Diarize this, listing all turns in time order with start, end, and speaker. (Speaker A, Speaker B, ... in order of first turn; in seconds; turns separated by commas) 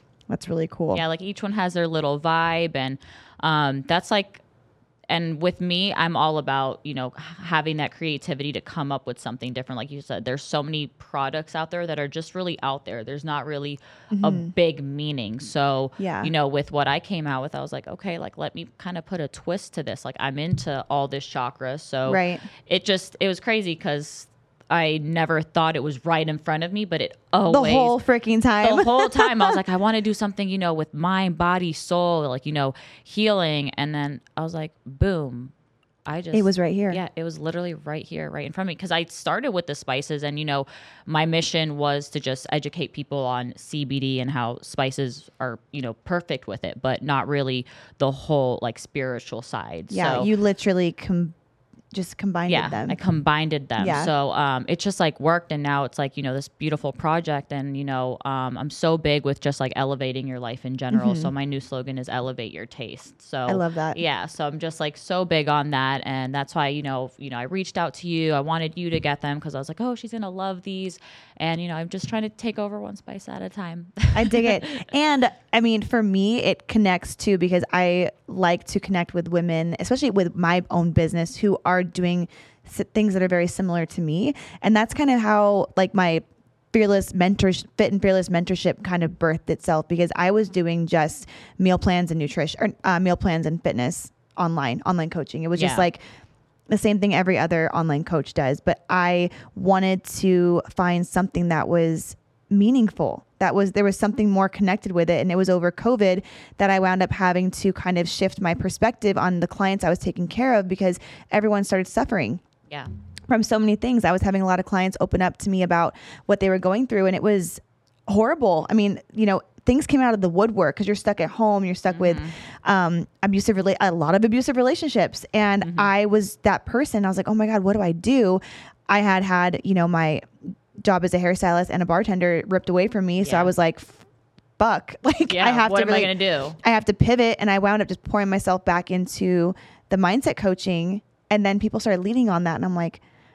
Speaker A: 0.3-1.0, Speaker B: 0.9-4.4, Speaker B: 5.1-28.0, Speaker A: 14.1-14.5, Speaker A: 16.0-16.3, Speaker A: 22.1-22.4, Speaker A: 27.5-29.6, Speaker B: 28.6-35.5, Speaker B: 36.1-50.3, Speaker A: 36.3-37.0, Speaker A: 49.9-51.4, Speaker A: 51.9-53.0, Speaker B: 52.5-74.9, Speaker A: 53.8-54.1, Speaker A: 60.9-61.3, Speaker A: 63.5-64.0, Speaker A: 74.2-96.0, Speaker B: 95.5-95.9, Speaker A: 96.7-112.4, Speaker A: 113.3-134.0, Speaker B: 121.9-122.3, Speaker B: 125.6-125.9, Speaker B: 133.2-133.5, Speaker A: 134.6-143.0, Speaker B: 135.3-136.6